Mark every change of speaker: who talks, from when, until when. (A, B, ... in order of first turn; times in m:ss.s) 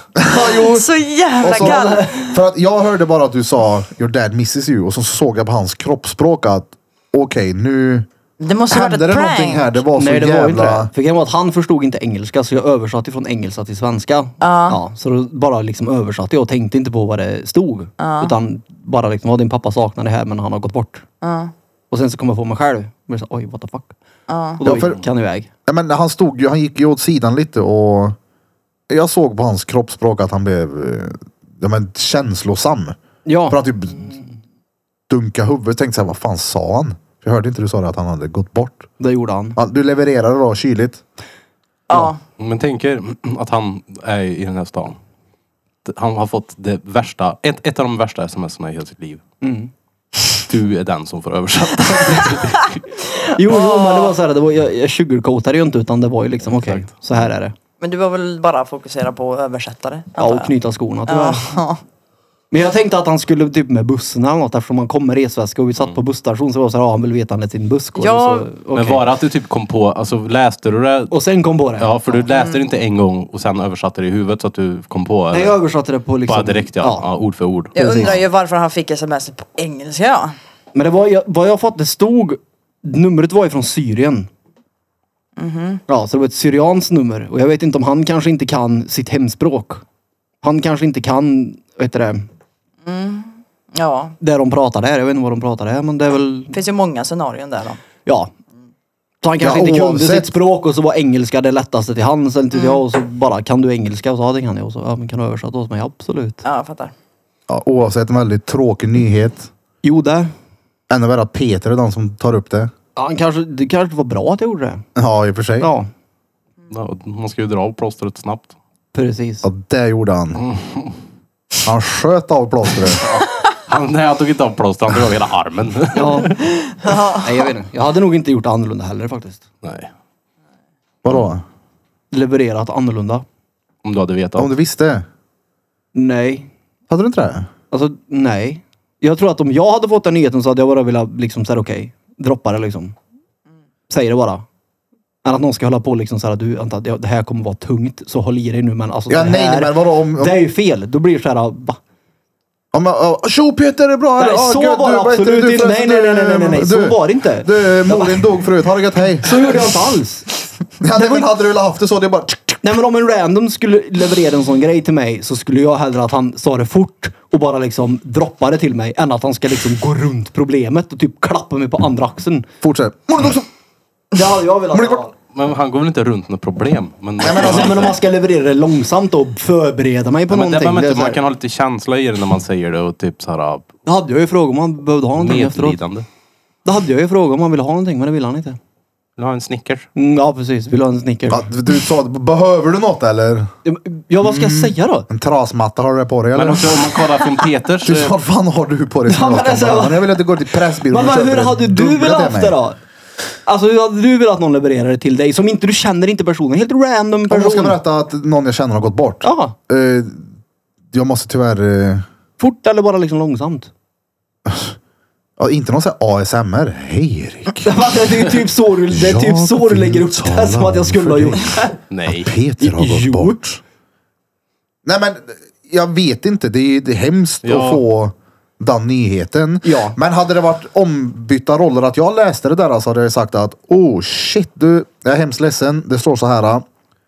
0:00.2-0:00.9 A
0:00.3-0:02.4 B
0:01.4-0:08.1 A
0:01.5-0:02.0 C
0:08.4-0:09.8 B
0:08.7-0:10.9 A
0:10.0-0:21.0 C
0:14.4-0:14.8 B
0:18.0-0:18.3 B
0:21.2-0:21.5 B
0:21.9-0:23.9 C
0:24.3-0:24.6 B
0:24.6-0:25.5 C
0:24.6-0:25.0 A
0:25.7-0:28.2 A
0:28.9-0:33.0 A
0:33.2-0:34.2 C
0:33.5-0:34.1 A
0:35.1-0:38.9 A
0:39.0-0:39.6 C
0:39.6-0:41.0 A
0:41.9-0:42.2 B
0:42.4-0:45.0 D
0:45.8-0:49.2 D
0:49.4-0:49.7 C
0:50.5-0:52.8 D
0:53.0-0:54.2 B
0:53.4-0:57.5 C
0:56.4-0:56.9 D
0:57.8-1:00.5 B
1:00.2-1:01.6 C
1:01.1-1:01.8 B
1:02.5-1:09.0 C
1:08.0-1:08.5 B
1:08.7-1:11.1 D
1:11.1-1:11.9 C
1:11.8-1:15.6 D
1:12.3-1:12.6 B
1:15.3-1:17.0 C
1:16.2-1:18.2 D
1:17.7-1:18.2 C
1:17.7-1:20.4 B
1:20.7-1:24.3 C
1:25.4-1:25.8 B
1:25.9-1:29.8 C
1:30.4-1:32.3 C
1:32.8-1:34.1 B
1:34.2-1:36.6 C
1:36.5-1:37.8 B
1:38.0-1:38.3 C
1:39.2-1:46.4 C
1:39.4-1:40.3 A
1:42.5-1:42.8 B
1:46.4-1:46.9 B
1:47.5-1:49.5 A
1:49.8-1:50.3 C
1:50.9-1:52.7 A
1:53.0-1:54.8 C
1:55.0-1:55.7 A
1:55.6-1:55.9 C
1:56.7-1:58.5 D
1:58.9-1:59.5 C
1:59.4-2:00.4 A
2:00.4-2:00.9 D
2:01.6-2:03.0 A
2:03.0-2:06.3 D
2:05.9-2:06.4 C
2:06.4-2:07.4 B
2:07.1-2:09.4 C
2:09.6-2:09.9 D
2:11.0-2:11.4 A
2:12.1-2:13.2 C
2:13.8-2:14.5 D
2:14.4-2:15.0 A
2:15.9-2:16.5 C
2:16.9-2:17.5 A
2:17.7-2:22.9 C
2:23.9-2:24.4 C
2:25.2-2:31.8 C
2:29.1-2:30.4 A
2:32.7-2:39.5 A
2:34.2-2:38.4 C
2:39.2-2:40.3 C
2:40.8-2:42.6 A
2:40.9-2:41.2 C
2:42.6-2:52.5 C
2:52.6-2:53.5 A
2:54.1-2:55.1 C
2:54.7-2:55.0 A
2:55.3-2:57.9 D
2:57.2-2:57.8 A
2:57.2-3:01.2 C
3:00.3-3:03.7 D
3:03.8-3:05.8 C
3:05.2-3:06.1 D
3:06.6-3:08.6 C
3:09.2-3:09.9 D
3:10.0-3:11.5 C
3:11.3-3:13.5 A
3:13.6-3:15.1 C
3:14.2-3:16.9 A
3:16.3-3:18.1 D
3:17.8-3:22.6 A
3:19.1-3:20.2 C
3:20.8-3:22.8 C
3:23.4-3:27.8 C
3:27.3-3:30.3 A
3:29.2-3:29.5 C
3:30.9-3:32.0 A
3:32.4-3:33.7 C
3:34.4-3:34.8 A
3:35.4-3:37.7 A
3:37.6-3:41.7 C
3:38.9-3:43.6 A
3:41.9-3:42.3 D
3:42.6-3:43.4 C
3:44.8-3:56.6 A
3:47.4-3:47.8 D
3:49.6-3:50.0 C